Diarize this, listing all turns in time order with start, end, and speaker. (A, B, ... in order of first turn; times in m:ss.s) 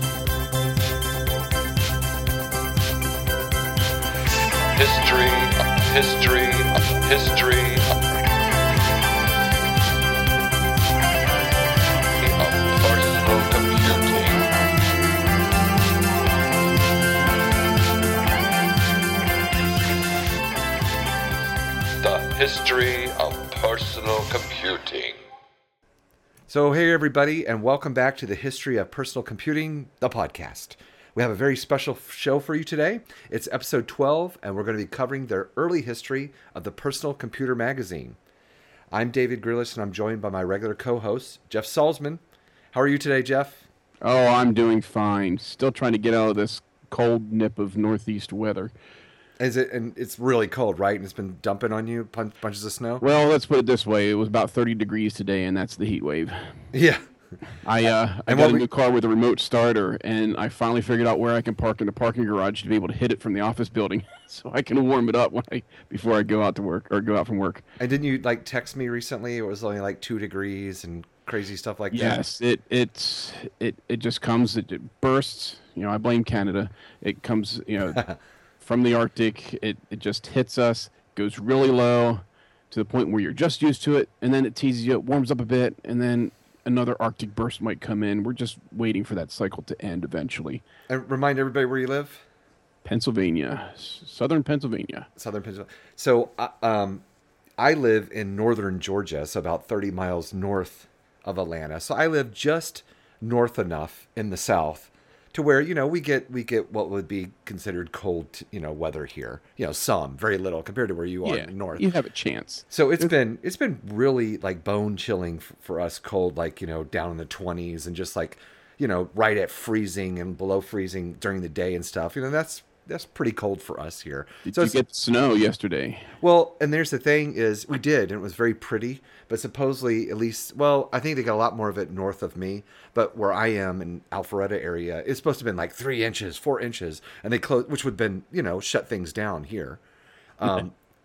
0:04.8-0:08.0 A
0:12.2-0:14.5 A
0:22.0-0:25.2 A
0:26.5-0:38.2 B
0:38.9-0:42.2 B
0:42.7-0:43.7 B
0:44.0-0:48.7 C
0:49.4-0:53.0 B
0:53.0-0:56.6 C
0:56.7-0:57.1 B
0:57.6-1:07.6 C
0:58.3-0:58.7 B
1:07.8-1:12.2 B
1:11.9-1:18.0 C
1:18.6-1:30.6 C
1:30.9-1:32.2 B
1:32.8-1:35.1 C
1:35.2-1:37.0 B
1:37.6-1:51.9 B
1:51.2-1:53.1 C
1:52.7-2:04.8 B
2:04.4-2:06.2 C
2:06.2-2:19.8 B
2:20.4-2:20.8 B